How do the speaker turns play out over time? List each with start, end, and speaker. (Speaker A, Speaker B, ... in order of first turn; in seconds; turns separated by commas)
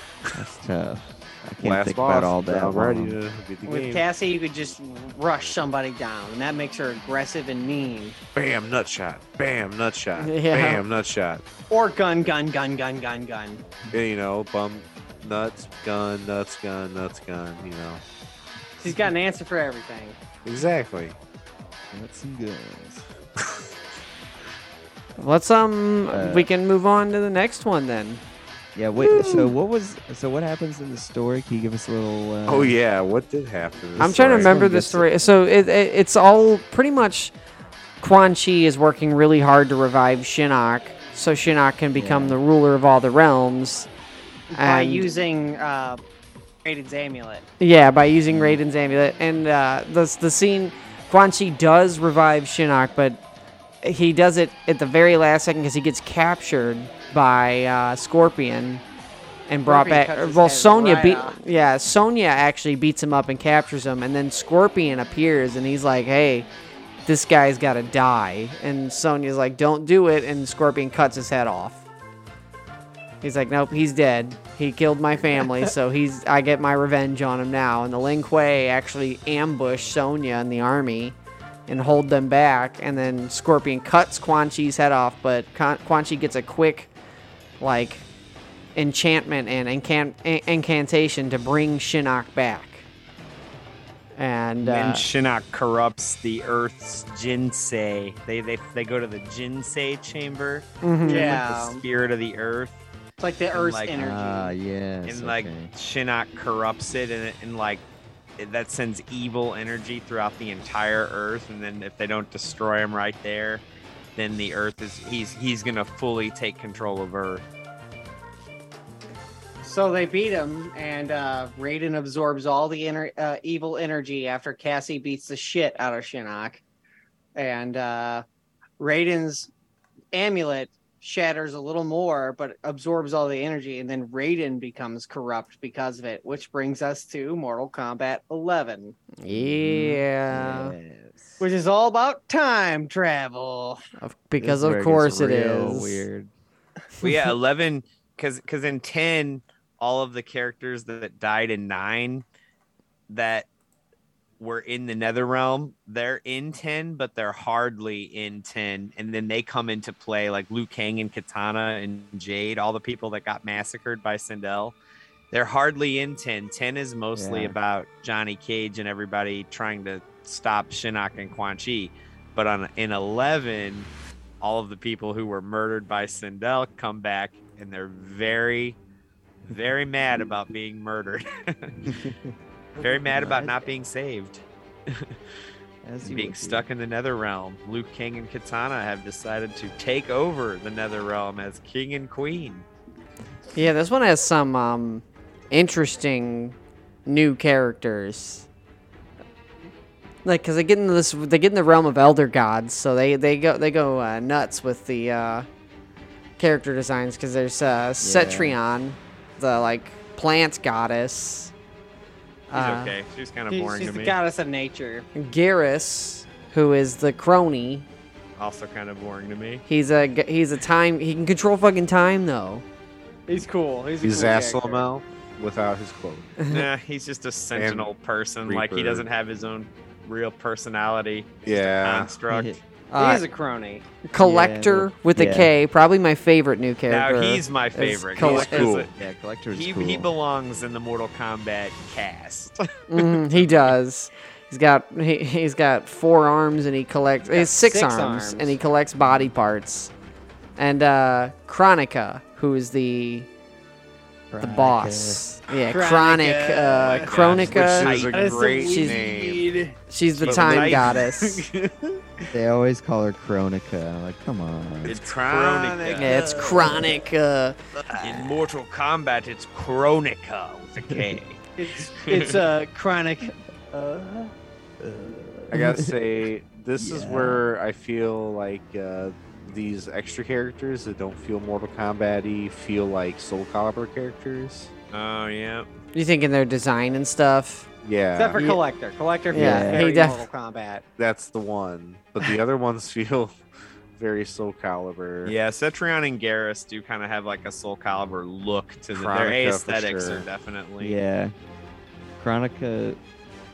Speaker A: 0.3-3.2, Speaker B: 1.6-4.0, Speaker C: 3.7-8.2, Speaker B: 8.3-11.4, Speaker D: 10.2-10.8, Speaker C: 11.7-13.6, Speaker B: 13.9-18.0, Speaker C: 18.8-20.2, Speaker B: 20.4-21.2, Speaker A: 21.9-23.1, Speaker D: 25.2-28.2, Speaker A: 26.1-26.5, Speaker A: 28.8-32.8, Speaker B: 29.1-29.4, Speaker B: 32.5-34.6, Speaker A: 34.0-35.1, Speaker D: 34.0-37.3, Speaker D: 38.0-43.9, Speaker A: 41.9-42.4, Speaker C: 44.5-46.0, Speaker D: 44.6-45.1, Speaker C: 46.6-47.5, Speaker D: 47.6-53.2, Speaker A: 48.3-48.6, Speaker D: 53.8-58.8, Speaker D: 59.5-66.5, Speaker C: 59.7-61.4, Speaker D: 67.1-71.8, Speaker D: 73.2-86.9, Speaker D: 87.6-88.1, Speaker D: 88.8-92.9, Speaker D: 94.2-95.0, Speaker E: 94.6-102.8, Speaker D: 100.8-101.4, Speaker C: 101.0-101.8, Speaker C: 103.2-104.5, Speaker E: 103.5-104.0, Speaker A: 104.0-105.7, Speaker E: 105.0-107.8, Speaker E: 108.4-113.6, Speaker E: 114.2-117.4, Speaker C: 119.6-126.6, Speaker C: 127.4-128.2, Speaker C: 128.8-129.5, Speaker C: 130.1-139.0, Speaker D: 139.2-140.8, Speaker A: 139.3-141.4, Speaker C: 141.4-143.8, Speaker D: 144.0-146.1, Speaker A: 144.4-146.3, Speaker E: 147.0-152.2, Speaker E: 153.1-153.5, Speaker E: 154.4-164.8, Speaker E: 165.3-173.9, Speaker A: 167.2-167.6, Speaker E: 174.4-178.8, Speaker E: 179.5-182.0, Speaker A: 181.8-183.7, Speaker E: 182.8-185.1, Speaker A: 185.8-186.7, Speaker E: 186.0-192.7, Speaker D: 193.6-198.5, Speaker D: 200.2-205.5, Speaker D: 206.4-211.5, Speaker A: 208.0-208.6, Speaker D: 212.5-212.9, Speaker E: 212.5-214.2, Speaker C: 213.5-215.1, Speaker D: 215.2-217.9, Speaker E: 218.4-219.6, Speaker D: 219.7-222.7, Speaker C: 223.3-224.9, Speaker B: 224.0-226.3, Speaker E: 226.5-232.6, Speaker B: 227.6-227.9, Speaker B: 228.5-229.1, Speaker B: 231.4-232.2, Speaker A: 232.3-232.6, Speaker D: 232.9-233.2, Speaker C: 233.0-233.9, Speaker D: 234.1-238.8, Speaker A: 234.2-235.5, Speaker E: 236.9-238.9, Speaker B: 238.2-238.9, Speaker A: 238.9-240.1, Speaker E: 239.5-242.7, Speaker D: 242.9-249.9, Speaker C: 247.3-248.6, Speaker D: 250.6-253.3, Speaker A: 254.3-255.2, Speaker D: 254.4-258.0, Speaker C: 255.7-257.4, Speaker E: 256.9-258.9, Speaker B: 257.1-262.0, Speaker C: 258.1-259.5, Speaker D: 258.7-258.9, Speaker D: 259.9-261.4, Speaker E: 260.2-261.1, Speaker A: 262.3-265.0, Speaker E: 264.9-266.2, Speaker B: 264.9-266.9, Speaker D: 266.0-267.6, Speaker A: 266.4-266.9, Speaker E: 268.0-271.4, Speaker A: 268.0-268.3, Speaker A: 270.9-271.2, Speaker C: 271.6-274.3, Speaker E: 272.0-272.4, Speaker A: 274.8-276.0, Speaker B: 275.5-284.7, Speaker A: 276.8-277.4, Speaker E: 284.9-285.7, Speaker D: 285.9-287.7, Speaker B: 287.8-288.4, Speaker C: 288.2-290.8, Speaker D: 288.4-288.6, Speaker A: 289.3-289.9, Speaker D: 289.3-290.2, Speaker B: 291.0-293.4, Speaker B: 293.9-295.3, Speaker E: 295.2-301.0, Speaker B: 298.9-300.2, Speaker A: 300.8-301.3, Speaker A: 302.2-303.0